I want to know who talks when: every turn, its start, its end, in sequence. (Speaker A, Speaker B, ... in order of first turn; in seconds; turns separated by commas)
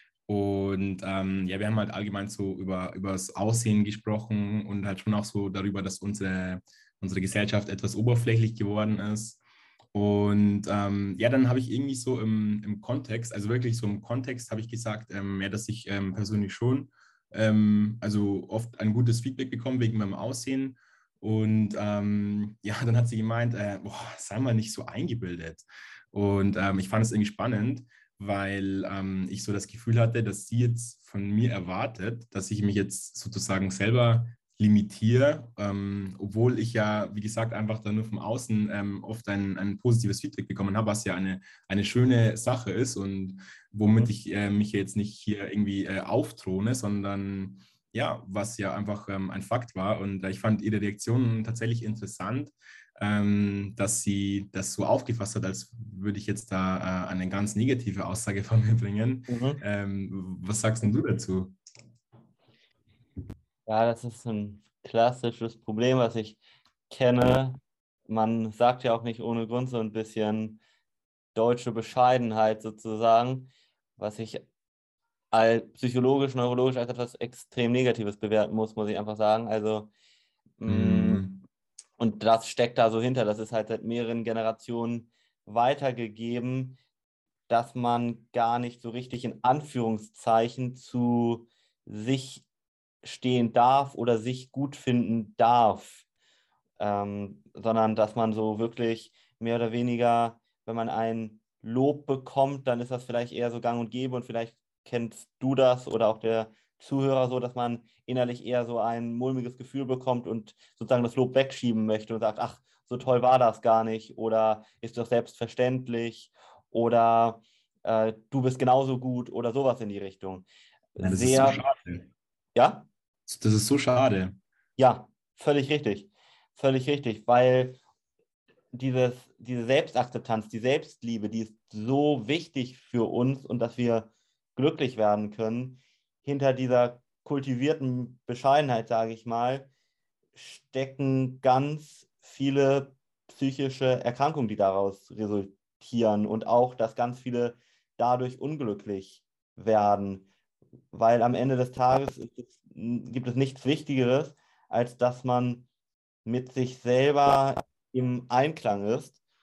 Speaker A: 0.3-9.4, Speaker A: 9.9-61.6, Speaker B: 59.3-59.6, Speaker B: 63.6-70.6, Speaker B: 71.3-74.5, Speaker B: 75.3-79.9, Speaker B: 80.6-81.2, Speaker A: 80.7-81.4, Speaker B: 82.0-86.8, Speaker B: 87.5-92.5, Speaker B: 93.0-96.0, Speaker B: 96.8-121.6, Speaker A: 121.0-122.1, Speaker B: 122.5-122.9, Speaker A: 123.3-124.4, Speaker B: 124.8-127.8, Speaker B: 128.7-139.7, Speaker B: 140.3-150.3, Speaker B: 150.9-155.7, Speaker B: 156.2-159.2